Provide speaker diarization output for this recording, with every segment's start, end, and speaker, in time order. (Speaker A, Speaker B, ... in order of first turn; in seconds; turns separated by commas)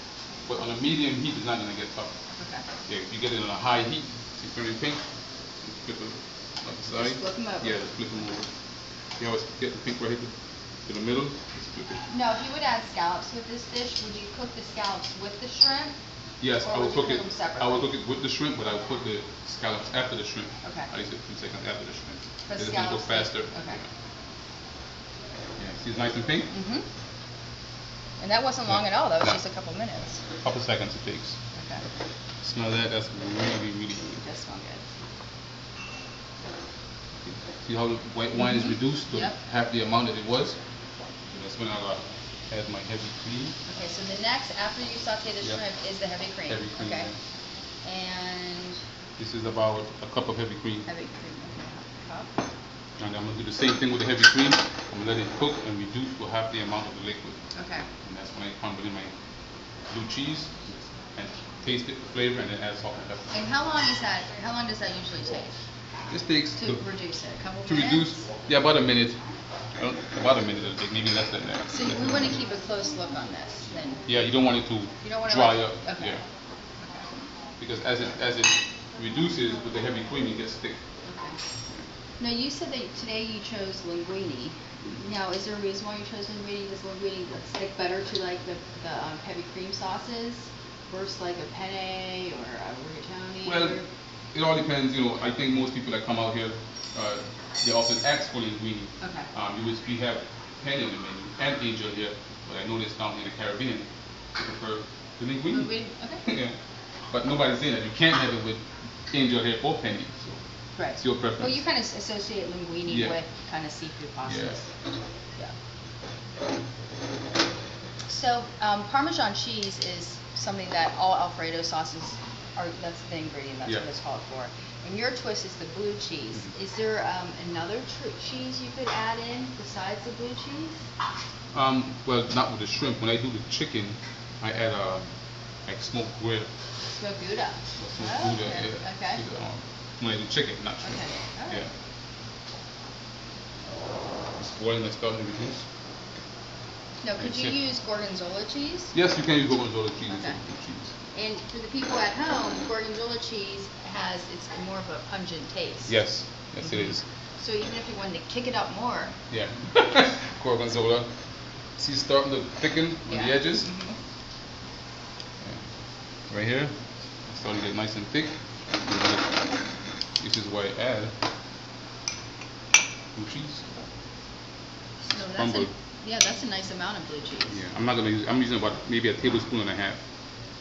Speaker A: 0.5-2.1, Speaker B: 2.3-2.6, Speaker A: 2.9-5.0, Speaker A: 5.6-8.5, Speaker B: 6.9-7.7, Speaker A: 9.2-10.3, Speaker A: 10.8-12.0, Speaker B: 12.1-15.9, Speaker A: 16.4-23.8, Speaker B: 16.6-17.9, Speaker B: 20.6-20.9, Speaker B: 22.5-23.8, Speaker A: 25.6-26.5, Speaker B: 26.5-26.9, Speaker B: 28.2-30.2, Speaker A: 30.4-31.4, Speaker B: 31.5-31.8, Speaker A: 32.4-34.2, Speaker B: 34.2-34.8, Speaker A: 37.2-40.6, Speaker B: 39.1-39.4, Speaker A: 41.3-43.6, Speaker B: 43.7-47.1, Speaker A: 46.5-47.2, Speaker B: 47.8-48.8, Speaker A: 49.2-50.9, Speaker B: 50.9-52.3, Speaker A: 53.0-57.4, Speaker B: 57.5-57.9, Speaker A: 58.0-59.1, Speaker A: 59.9-63.3, Speaker B: 63.3-65.5, Speaker A: 66.1-66.8, Speaker B: 66.6-68.2, Speaker A: 67.7-69.2, Speaker A: 69.8-72.2, Speaker B: 71.7-74.0, Speaker A: 74.1-76.2, Speaker B: 75.0-76.2, Speaker A: 77.6-80.8, Speaker B: 81.1-81.4, Speaker B: 82.2-93.8, Speaker A: 93.4-93.8, Speaker A: 94.3-105.7, Speaker B: 99.0-99.3, Speaker B: 105.5-106.3, Speaker A: 106.2-106.5, Speaker A: 107.1-110.4, Speaker B: 110.8-114.6, Speaker A: 111.0-111.6, Speaker A: 112.9-113.2, Speaker A: 114.2-114.6, Speaker B: 118.1-130.8, Speaker A: 131.5-135.1, Speaker A: 135.7-136.5, Speaker B: 136.9-139.2, Speaker A: 137.8-141.7, Speaker B: 140.8-141.6, Speaker A: 144.4-145.6, Speaker B: 147.0-148.9, Speaker A: 147.2-147.5, Speaker A: 148.9-150.9, Speaker B: 150.1-150.4, Speaker B: 151.1-155.9, Speaker A: 155.9-157.0, Speaker B: 157.4-159.1, Speaker A: 159.3-161.1, Speaker A: 161.8-163.7, Speaker B: 163.1-163.9, Speaker A: 166.3-166.7, Speaker A: 167.3-168.3, Speaker A: 168.8-169.3, Speaker A: 170.2-171.1, Speaker A: 173.1-173.7, Speaker B: 175.1-177.6, Speaker A: 175.1-175.7, Speaker A: 177.5-180.0